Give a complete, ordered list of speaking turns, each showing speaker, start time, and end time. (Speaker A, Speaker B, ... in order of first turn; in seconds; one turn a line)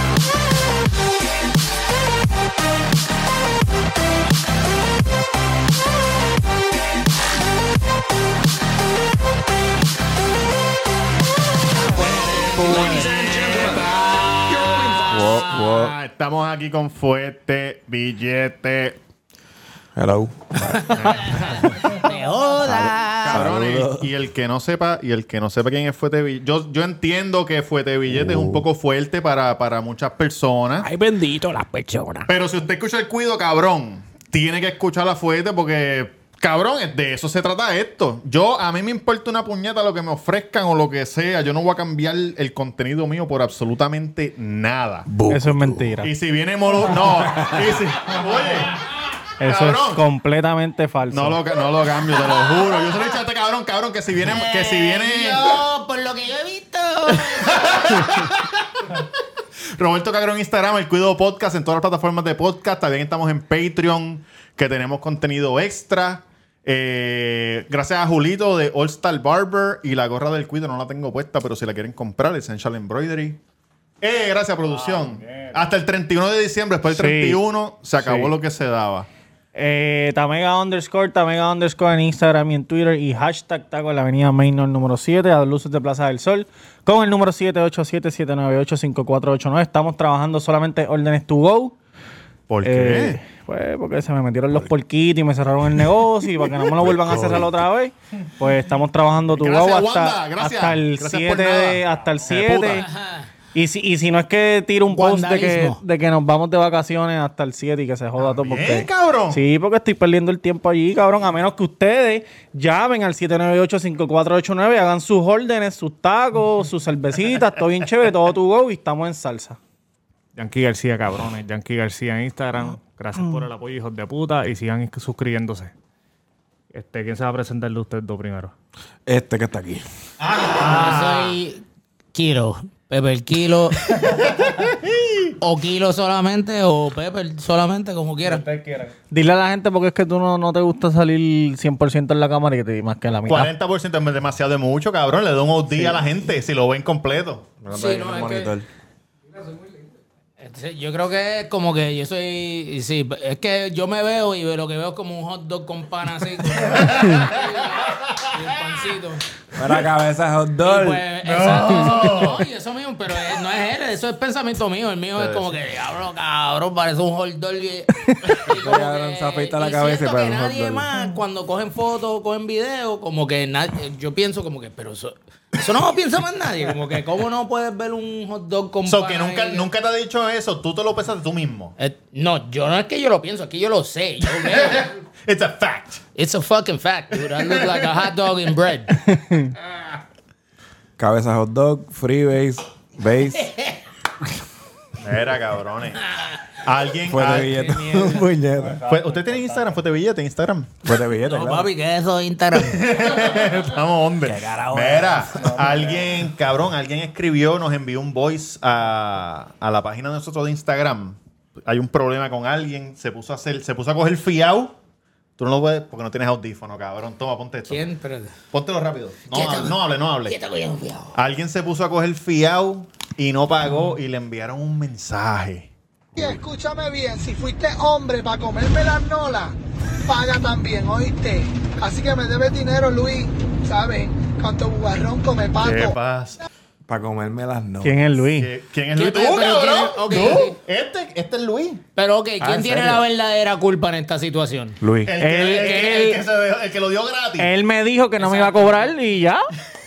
Speaker A: 11.8-15.8
Speaker B: 12.0-13.2
Speaker C: 12.0-19.0
Speaker B: 15.0-15.9
Speaker B: 19.9-21.5
Speaker C: 20.9-22.0
Speaker A: 20.9-23.5
Speaker B: 22.6-24.1
Speaker C: 23.2-30.9
Speaker B: 28.1-28.6
Speaker B: 30.8-32.3
Speaker C: 32.3-45.1
Speaker B: 45.1-45.9
Speaker D: 45.3-46.1
Speaker C: 46.0-48.8
Speaker B: 46.8-47.8
Speaker D: 49.4-51.4
Speaker C: 49.4-50.0
Speaker C: 51.1-55.6
Speaker A: 54.3-57.9
Speaker C: 57.4-59.0
Speaker C: 59.8-73.4
Speaker C: 74.0-79.1
Speaker E: 74.6-75.7
Speaker D: 76.9-77.4
Speaker D: 78.0-78.3
Speaker D: 79.5-91.7
Speaker C: 92.5-93.2
Speaker D: 92.6-102.9
Speaker B: 96.8-97.5
Speaker C: 99.3-102.9
Speaker A: 102.7-103.3
Speaker D: 103.5-119.6
Speaker A: 104.9-105.8
Speaker C: 108.2-109.4
Speaker E: 120.3-125.7
Speaker E: 126.7-128.5
Speaker B: 129.1-129.8
Speaker C: 130.2-131.1
Speaker E: 130.5-131.3
Speaker A: 130.5-133.8
Speaker C: 134.1-135.3
Speaker A: 135.4-138.4
Speaker E: 138.2-138.9
Speaker D: 139.1-143.5
Speaker C: 143.3-147.5
Speaker B: 147.6-148.7
Speaker A: 147.7-148.5
Speaker A: 150.4-159.2
Speaker C: 156.5-158.3
Speaker B: 159.5-161.0
Speaker A: 160.6-179.7
Speaker C: 161.2-162.4
Speaker B: 168.4-170.9
Speaker C: 178.8-181.7
Speaker A: 181.8-184.9
Speaker C: 184.4-186.0
Speaker A: 186.1-188.9
Speaker C: 187.4-187.9
Speaker D: 189.2-189.5
Speaker B: 191.0-193.5
Speaker A: 193.5-193.7
Speaker C: 195.0-197.7
Speaker B: 197.1-198.8
Speaker A: 197.5-198.2
Speaker E: 198.6-199.9
Speaker C: 198.9-200.7
Speaker B: 200.8-201.7
Speaker A: 201.2-203.1
Speaker C: 202.6-214.8
Speaker B: 204.2-205.4
Speaker E: 205.4-206.2
Speaker C: 215.4-217.8
Speaker A: 217.7-218.3
Speaker C: 218.5-220.4
Speaker A: 219.3-221.2
Speaker C: 221.2-225.7
Speaker F: 226.2-235.9
Speaker C: 235.6-236.4
Speaker B: 236.9-238.2
Speaker D: 237.8-238.5
Speaker C: 238.3-241.8
Speaker A: 238.9-240.6
Speaker A: 241.9-246.2
Speaker B: 242.4-243.0
Speaker B: 244.8-245.2
Speaker C: 245.0-247.5
Speaker D: 245.2-246.2
Speaker D: 247.4-249.5
Speaker A: 248.2-248.9